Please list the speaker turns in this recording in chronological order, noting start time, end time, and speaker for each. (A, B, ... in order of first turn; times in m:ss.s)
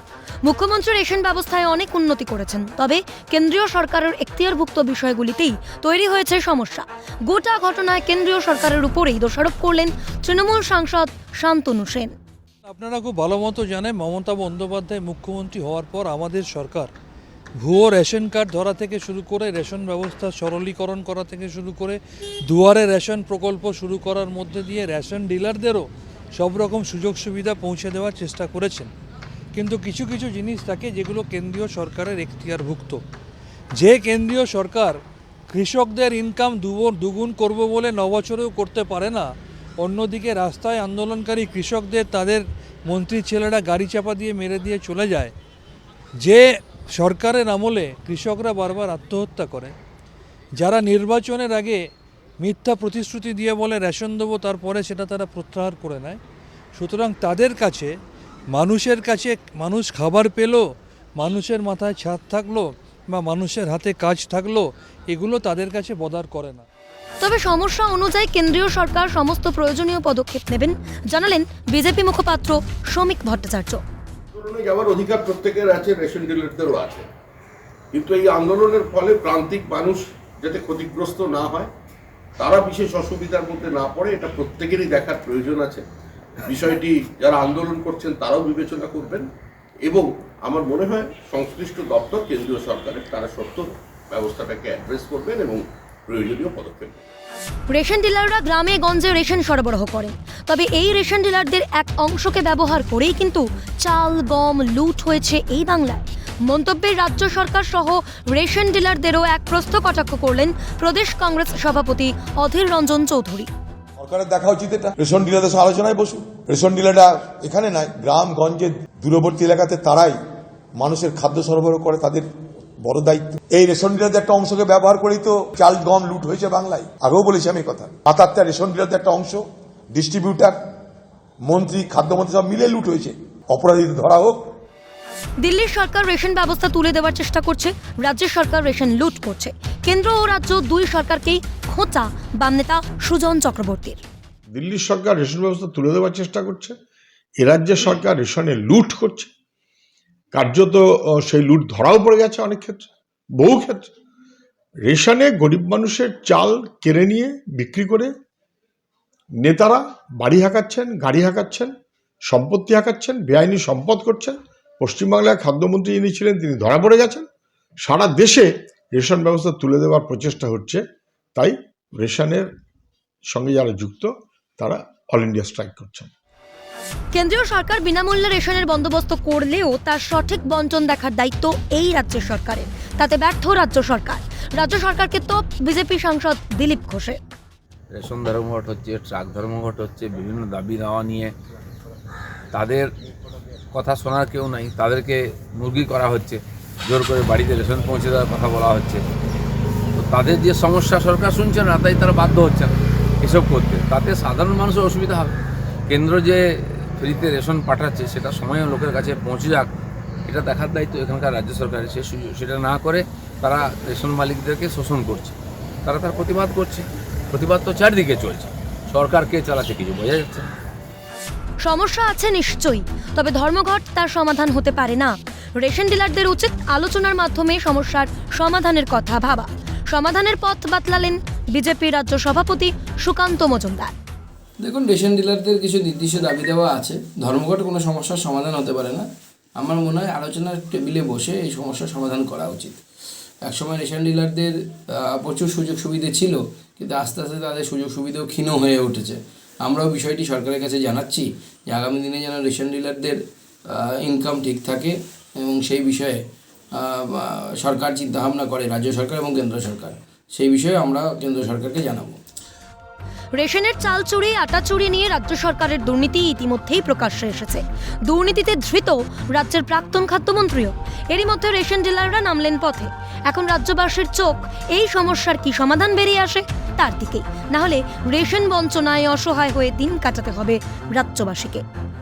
0:00.4-0:12.2 A
0:12.6-0:16.9 B
0:17.6-0:25.9 B
0:26.4-0:28.9 B
0:29.5-0:33.0 B
0:33.8-0:35.0 B
0:35.5-0:45.3 B
0:46.2-0:49.7 B
0:50.6-0:51.8 B
0:52.4-0:56.2 B
0:56.7-0:57.9 B
0:58.5-1:06.6 B
1:07.2-1:13.8 A
1:14.3-1:17.0 C
1:17.9-1:21.7 C
1:22.4-1:25.8 C
1:26.4-1:29.3 C
1:29.8-1:37.0 C
1:37.7-1:53.5 A
1:54.0-2:00.2 D
2:00.8-2:02.3 D
2:02.8-2:10.6 D
2:11.5-2:14.4 D
2:15.4-2:24.0 A
2:24.5-2:26.7 E
2:27.4-2:29.3 E
2:30.3-2:33.9 E
2:34.8-2:38.1 E
2:39.4-2:41.7 E
2:42.3-2:47.2 E
2:47.8-2:50.8 E
2:51.4-2:52.5 E
2:53.3-2:56.1 E
2:57.1-3:07.2 A
3:07.9-3:11.3 F
3:12.5-3:12.9 F
3:13.7-3:19.0 F
3:20.0-3:25.4 F
3:25.9-3:29.7 F
3:30.3-3:40.5 F
3:41.6-3:53.9 A
3:54.6-3:59.1 G
3:59.6-4:02.8 G
4:03.5-4:13.2 G
4:13.7-4:16.2 G
4:16.7-4:22.2 G
4:23.4-4:41.6 A